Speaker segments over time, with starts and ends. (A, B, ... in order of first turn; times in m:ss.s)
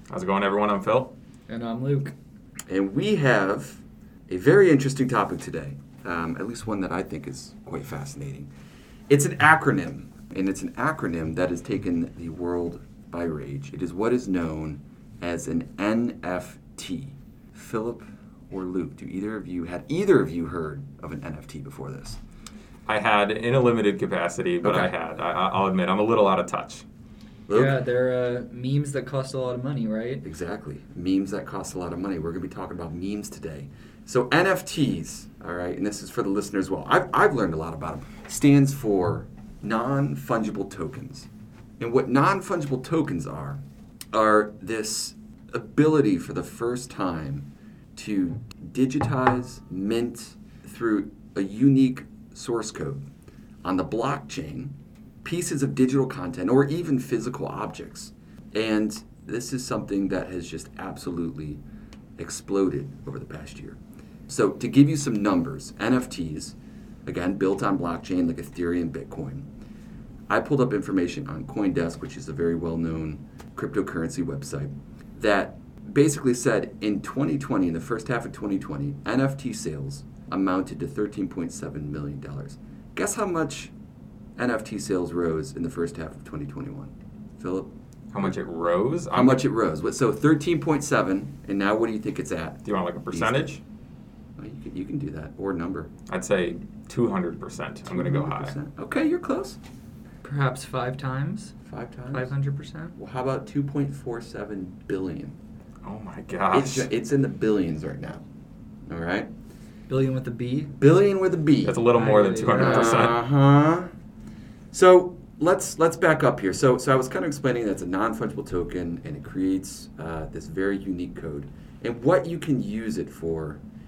0:00.1-0:01.1 A
0:01.5-0:02.2 B
0:02.7-0:08.5 C
0:09.1-0:22.2 C
0:22.9-0:26.9 A
0:24.6-0:24.9 C
0:27.5-0:27.8 C
0:27.5-0:30.2 B
0:30.2-0:41.3 C
0:41.8-0:43.6 C
0:44.1-0:53.0 C
0:53.6-1:01.6 C
1:02.2-1:09.5 C
1:10.3-1:23.7 C
1:24.4-1:27.7 C
1:28.1-1:29.4 A
1:29.1-1:33.6 C
1:32.6-1:33.6 A
1:34.4-1:35.9 C
1:36.1-1:38.6 A
1:37.9-1:39.6 C
1:40.2-1:41.6 B
1:41.6-1:42.3 C
1:42.1-1:42.9 B
1:43.0-1:45.4 C
1:45.8-1:46.9 A
1:46.5-1:48.2 C
1:48.9-1:49.3 C
1:49.9-1:50.7 B
1:50.8-1:51.8 C
1:51.6-1:53.2 A
1:51.9-1:53.1 B
1:52.4-1:53.9 C
1:54.7-2:03.6 C